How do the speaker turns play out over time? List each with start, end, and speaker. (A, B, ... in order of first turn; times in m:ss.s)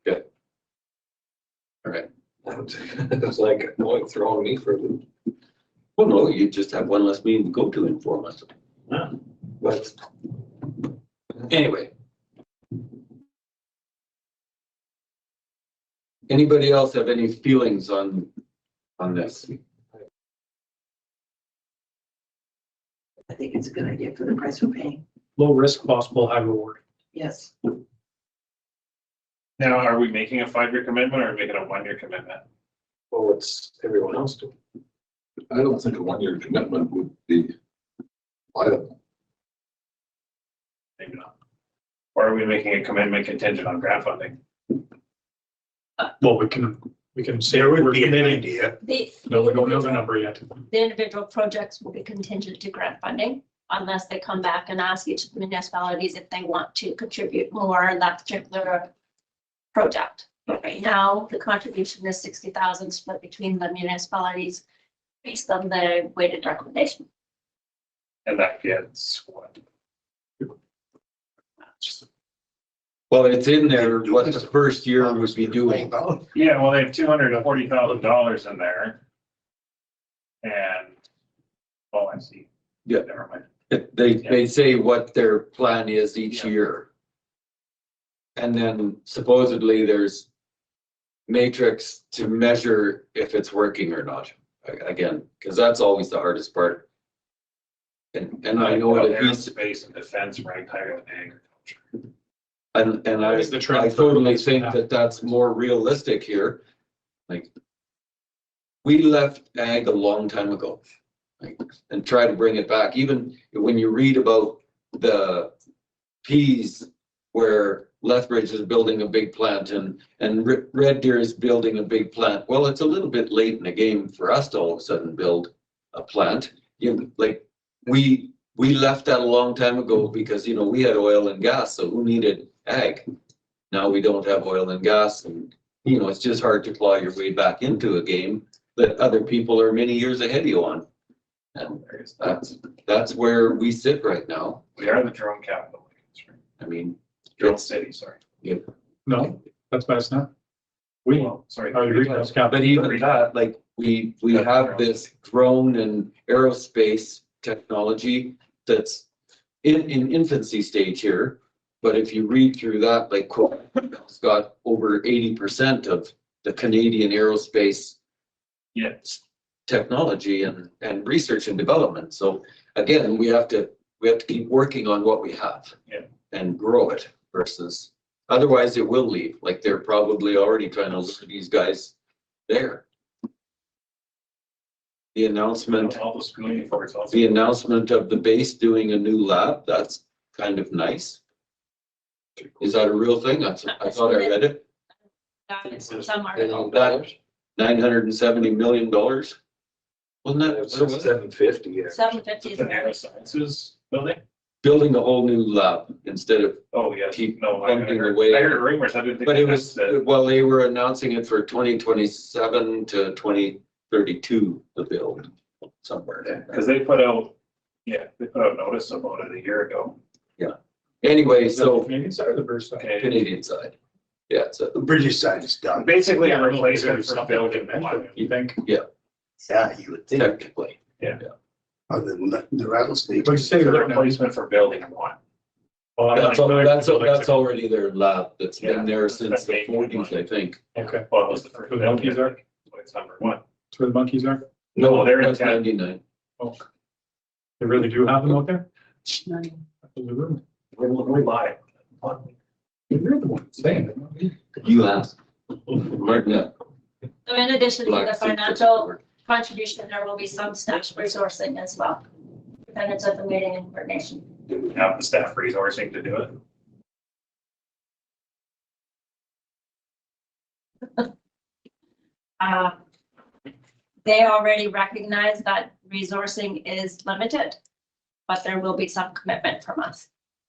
0:02.4-0:05.0 A
0:06.0-0:08.5 B
0:11.5-0:11.9 B
0:16.3-0:18.3 B
0:19.0-0:19.6 B
0:23.3-0:25.0 C
0:25.4-0:26.8 D
0:27.1-0:27.5 C
0:29.6-0:32.4 E
0:33.1-0:34.5 A
0:35.5-0:37.5 F
0:38.5-0:38.9 F
0:41.0-0:41.3 E
0:42.1-0:44.4 E
0:46.2-0:48.5 D
0:47.5-0:48.8 G
0:48.8-0:50.1 H
0:49.2-0:50.6 D
0:50.7-0:58.9 H
0:59.7-1:04.6 H
1:05.2-1:07.0 H
1:08.2-1:09.6 E
1:13.1-1:15.9 B
1:13.7-1:16.3 G
1:16.3-1:19.0 E
1:20.4-1:21.0 E
1:21.9-1:23.5 E
1:23.7-1:26.9 B
1:28.4-1:30.3 B
1:31.3-1:36.8 B
1:38.1-1:39.5 B
1:38.6-1:42.0 E
1:42.7-1:46.6 B
1:43.2-1:44.8 D
1:48.8-1:50.8 B
1:51.4-1:55.5 B
1:56.2-2:13.0 B
2:13.7-2:20.8 B
2:21.5-2:24.6 B
2:21.8-2:22.1 E
2:24.8-2:26.4 E
2:26.6-2:27.6 B
2:27.4-2:28.2 E
2:29.0-2:30.3 D
2:31.0-2:32.7 D
2:31.1-2:33.2 E
2:32.5-2:39.0 B
2:34.3-2:34.9 E
2:39.6-2:48.0 B
2:48.7-2:49.1 E
2:49.7-2:55.8 B
2:56.3-3:01.9 B
3:02.5-3:02.8 B
3:05.1-3:06.0 B
3:05.7-3:07.4 E
3:07.1-3:11.2 B
3:12.6-3:14.6 B
3:13.8-3:14.3 H
3:15.5-3:16.7 H
3:15.8-3:17.1 A
3:16.7-3:17.0 B
3:17.6-3:19.4 B
3:20.2-3:21.1 B
3:20.4-3:22.0 A
3:21.9-3:23.0 H
3:22.4-3:24.2 E
3:24.6-3:28.6 B
3:26.7-3:30.0 E
3:29.2-3:35.3 B
3:35.8-3:36.5 B
3:36.5-3:37.3 E
3:37.8-3:40.0 E
3:40.4-3:41.9 B
3:41.5-3:42.9 D
3:42.8-3:43.2 E
3:43.0-3:43.7 B
3:44.3-3:44.8 B
3:44.7-3:46.0 G
3:45.8-3:48.2 E
3:46.1-3:48.6 D
3:49.4-3:50.4 G
3:50.1-3:50.8 B
3:51.9-3:53.6 G
3:53.2-3:54.2 D
3:53.5-3:55.2 E
3:56.0-3:57.4 D
3:56.1-4:00.6 B
3:58.6-4:00.2 E
4:00.7-4:01.1 D
4:01.1-4:03.4 E
4:01.6-4:02.3 D
4:03.7-4:04.4 D
4:04.8-4:05.6 E
4:04.8-4:06.0 B
4:07.6-4:08.6 D
4:09.2-4:09.5 H
4:09.9-4:10.4 D
4:10.7-4:12.3 E
4:12.9-4:14.3 D
4:14.6-4:15.1 B
4:15.7-4:16.5 B
4:17.2-4:22.0 H
4:17.8-4:19.0 B
4:22.6-4:24.3 H
4:24.5-4:26.4 E
4:32.4-4:32.8 H
4:34.0-4:37.6 H
4:38.3-4:40.1 H